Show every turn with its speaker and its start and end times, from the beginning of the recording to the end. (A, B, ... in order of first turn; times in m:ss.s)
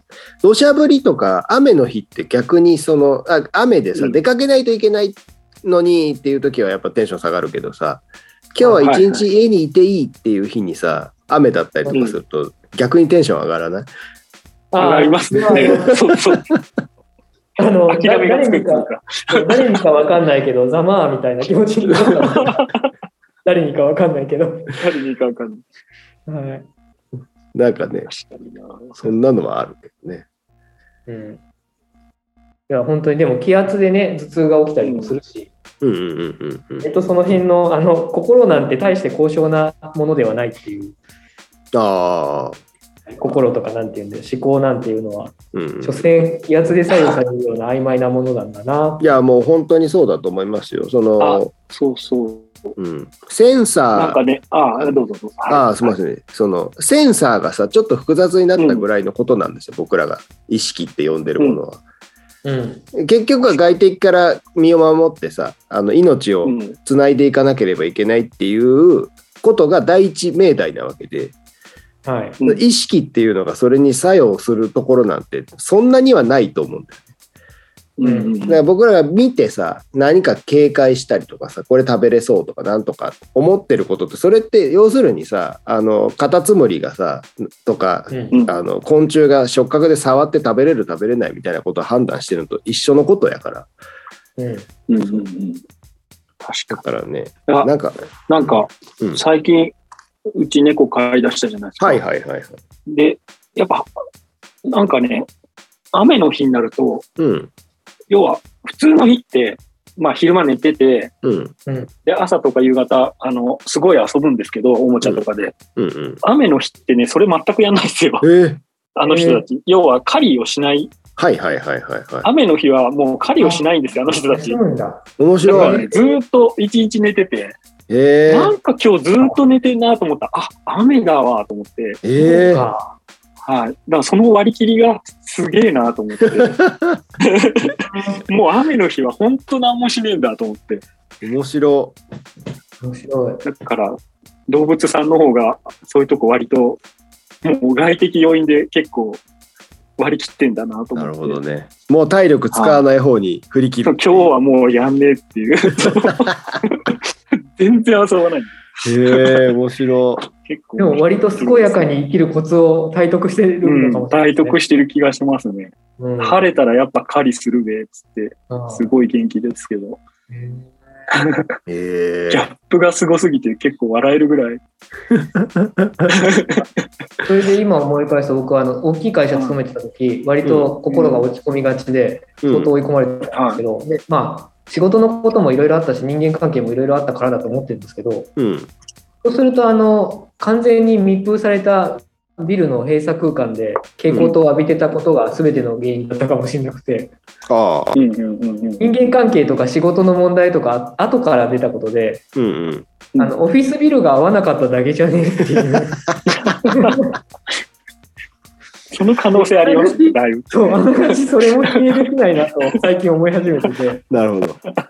0:00.4-0:13.9 A
0:08.8-0:09.2 B
0:11.9-0:12.2 B
0:14.7-0:16.0 C
0:14.8-0:16.5 B
0:15.5-0:15.8 A
0:17.6-0:22.7 C
0:17.9-0:19.8 B
0:22.1-0:22.6 B
0:23.4-0:24.7 C
0:24.8-0:25.6 B
0:26.3-0:26.7 C
0:27.5-0:28.1 A
0:28.1-0:29.2 B
0:29.0-0:30.2 A
0:31.1-0:31.4 C
0:32.7-0:35.5 C
0:34.8-0:35.2 B
0:35.8-0:36.9 A
0:36.8-0:41.0 C
0:41.7-0:42.6 A
0:43.1-0:49.0 C
0:45.5-0:46.1 A
0:49.0-0:51.5 A
0:51.2-0:52.8 B
0:52.8-0:54.2 A
0:53.9-0:55.9 B
0:54.8-1:01.8 A
0:58.6-0:58.8 B
1:02.4-1:02.8 C
1:03.0-1:11.4 A
1:06.4-1:06.8 B
1:12.0-1:12.4 C
1:12.4-1:17.0 A
1:18.0-1:18.6 B
1:18.0-1:18.3 C
1:18.5-1:33.7 A
1:28.1-1:28.4 C
1:34.4-1:34.7 C
1:34.9-1:35.6 B
1:36.4-1:36.8 B
1:36.7-1:39.2 A
1:38.3-1:39.7 B
1:40.4-1:42.0 B
1:41.8-1:42.6 A
1:42.9-1:43.9 B
1:44.7-1:45.3 B
1:45.9-1:47.1 B
1:47.2-1:47.5 A
1:48.1-1:51.1 B
1:51.2-1:51.6 A
1:52.1-1:55.6 B
1:55.8-1:56.2 A
1:56.2-1:58.3 B
1:58.2-1:58.6 A
1:59.0-2:00.9 B
1:59.0-1:59.4 C
2:01.2-2:02.3 A
2:02.2-2:04.6 B
2:03.4-2:06.1 C
2:05.2-2:05.9 A
2:05.5-2:07.6 B
2:07.9-2:08.6 A
2:08.3-2:12.0 B
2:12.0-2:12.7 A
2:12.2-2:13.0 C
2:13.4-2:16.6 B
2:16.4-2:17.0 A
2:17.2-2:17.8 B
2:17.9-2:18.2 C
2:18.3-2:20.8 B
2:21.2-2:22.0 A
2:22.8-2:23.4 C
2:23.4-2:24.0 B
2:24.5-2:26.8 B
2:27.4-2:29.2 B
2:30.0-2:31.4 B
2:31.0-2:34.3 A
2:32.5-2:32.8 B
2:33.8-2:39.4 B
2:38.8-2:40.2 A
2:40.4-2:41.9 B
2:40.8-2:44.6 C
2:43.6-2:50.0 B
2:46.0-2:46.4 C
2:48.5-2:48.9 C
2:50.3-2:50.7 C
2:51.7-2:52.5 A
2:52.3-2:54.6 B
2:55.1-2:56.1 A
2:56.1-2:56.6 B
2:57.3-3:08.3 C
3:00.4-3:00.8 A
3:00.8-3:01.3 B
3:02.4-3:02.7 A
3:03.3-3:03.6 B
3:08.4-3:08.7 A
3:09.2-3:17.1 C
3:14.1-3:14.4 A
3:17.5-3:18.0 A
3:17.9-3:18.8 B
3:18.8-3:22.2 C
3:22.4-3:22.9 A
3:23.2-3:26.1 C
3:26.5-3:27.0 B
3:26.7-3:27.1 C
3:28.9-3:31.2 B
3:29.3-3:34.0 C
3:34.1-3:34.6 A